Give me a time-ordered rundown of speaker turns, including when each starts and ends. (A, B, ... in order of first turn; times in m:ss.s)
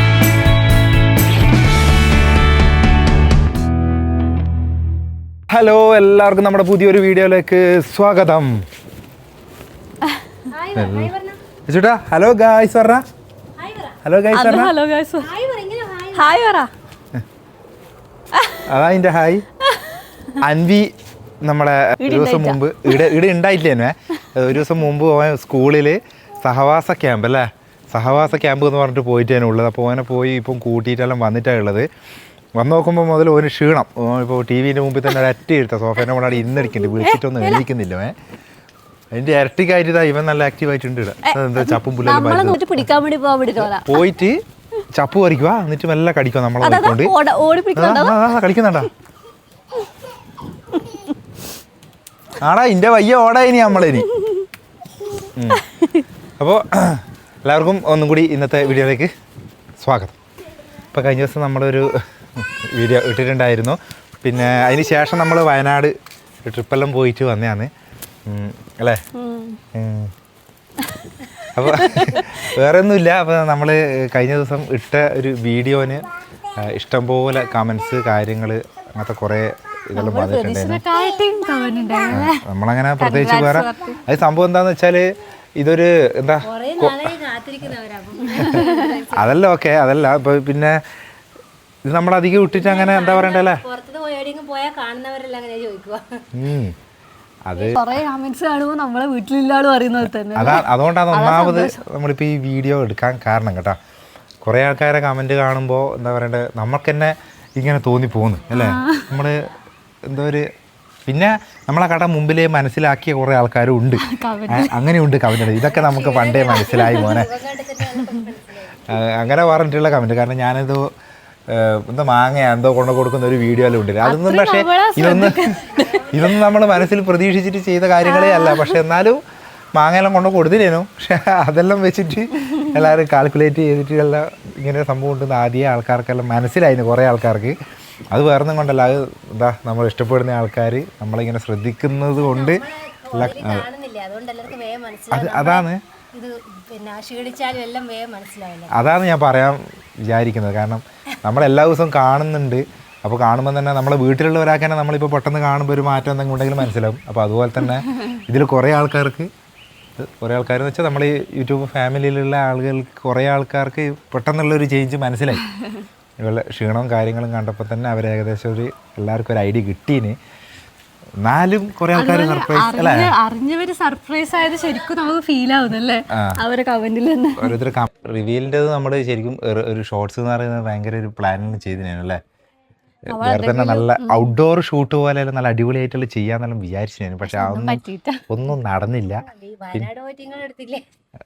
0:05.5-0:08.6 A
0:10.5-0:11.4 B
0:10.8-0:11.1 A
0:11.7-0:13.0 A
0:13.6-0:14.0 B
0:14.0-0:14.7 A
0:14.3-0:15.3 C
0:15.2-0:16.4 B
0:16.1-0:16.7 C
0:18.6-0:19.4 A
0:20.4-0:20.9 A
0:21.4-0:31.9 A
0:22.0-0:23.2 C
0:32.6-0:38.1 A
0:36.7-0:37.6 C
0:39.1-0:42.9 A
0:41.2-0:44.1 C
0:43.6-0:44.4 A
0:44.9-0:47.1 A
0:46.6-0:48.4 C
0:47.7-0:48.9 A
0:50.7-0:51.1 C
0:52.4-0:54.1 A
0:53.9-0:54.5 C
0:55.3-0:55.6 A
0:55.5-0:56.0 C
0:56.4-0:59.1 A
0:59.8-1:00.2 A
1:00.9-1:07.7 A
1:08.2-1:09.0 A
1:09.1-1:09.6 C
1:09.7-1:10.1 A
1:11.2-1:12.4 C
1:11.5-1:20.8 A
1:19.9-1:22.4 C
1:22.1-1:25.0 A
1:23.0-1:24.0 C
1:25.6-1:27.2 A
1:26.4-1:29.3 B
1:28.3-1:28.9 C
1:28.4-1:30.8 A
1:31.8-1:33.6 A
1:32.5-1:36.2 B
1:36.3-1:36.7 A
1:37.4-1:38.0 A
1:37.6-1:41.8 C
1:40.3-1:43.8 A
1:44.4-1:49.5 A
1:48.5-1:49.1 C
1:50.0-1:50.4 A
1:51.1-1:57.3 A
1:54.0-1:54.7 C
1:55.6-1:59.0 B
1:56.7-1:57.2 C
1:57.8-1:58.3 C
1:58.9-2:00.9 A
2:01.5-2:09.2 A
2:04.0-2:06.4 C
2:08.0-2:08.8 C
2:09.7-2:17.6 A
2:18.1-2:23.7 A
2:22.1-2:28.7 B
2:25.1-2:25.8 A
2:28.7-2:39.3 A
2:40.0-2:45.4 A
2:46.2-2:50.2 A
2:51.2-2:53.1 A
2:51.9-2:57.6 C
2:56.1-2:56.4 A
2:57.4-3:02.2 A
3:03.1-3:04.3 C
3:03.1-3:09.9 A
3:07.2-3:08.2 C
3:09.2-3:10.8 B